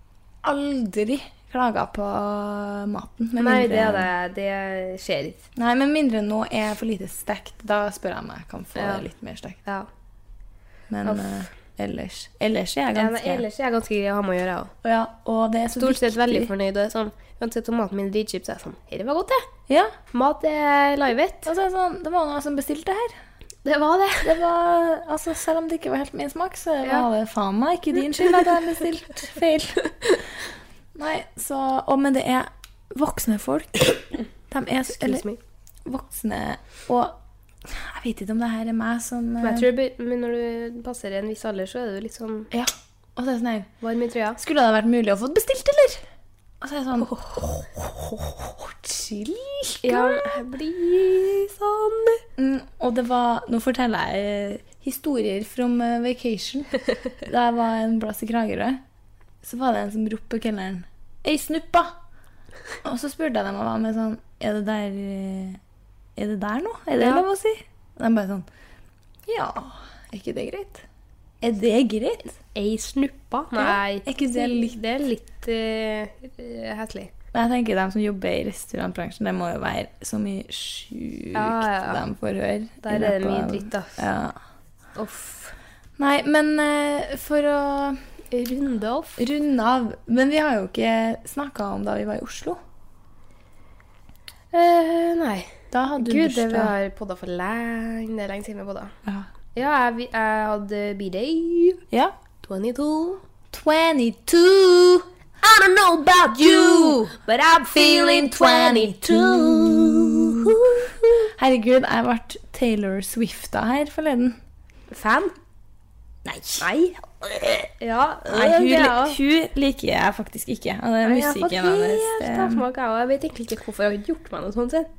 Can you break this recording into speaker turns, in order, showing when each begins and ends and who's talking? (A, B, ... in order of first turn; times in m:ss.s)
0:00.4-0:04.1 A
0:03.4-0:05.5 B
0:05.6-0:09.6 A
0:08.8-0:09.1 B
0:10.9-0:13.4 A
0:11.1-0:11.4 B
0:12.9-0:14.7 B
0:14.8-0:16.5 A
0:15.8-0:19.5 B
0:19.7-0:19.9 A
0:20.1-0:21.5 B
0:21.5-0:23.1 A
0:23.6-0:24.4 B
0:24.2-0:29.9 A
0:31.0-0:35.3 A
0:34.9-0:35.4 B
0:35.8-0:39.7 A
0:39.4-0:42.5 B
0:42.5-0:43.7 A
0:43.8-0:44.4 B
0:44.4-0:46.0 A
0:46.6-0:50.4 A
0:47.1-0:47.5 B
0:49.8-0:52.2 B
0:52.4-0:58.8 A
0:59.4-1:02.0 A
1:02.8-1:05.6 A
1:06.2-1:08.5 A
1:09.3-1:10.8 A
1:11.4-1:12.3 A
1:12.5-1:17.1 B
1:13.6-1:14.8 A
1:17.3-1:24.4 A
1:21.3-1:22.0 B
1:22.8-1:24.0 B
1:25.0-1:25.6 B
1:26.0-1:28.0 A
1:28.3-1:29.2 B
1:29.2-1:32.6 A
1:34.5-1:39.0 B
1:35.7-1:36.8 A
1:39.6-1:41.8 B
1:42.4-1:43.2 B
1:43.5-1:54.4 A
1:45.5-1:50.9 B
1:54.9-1:55.3 B
1:56.2-1:57.7 A
1:56.6-1:57.0 B
1:57.8-1:59.2 B
1:58.3-2:02.6 A
2:01.0-2:04.9 B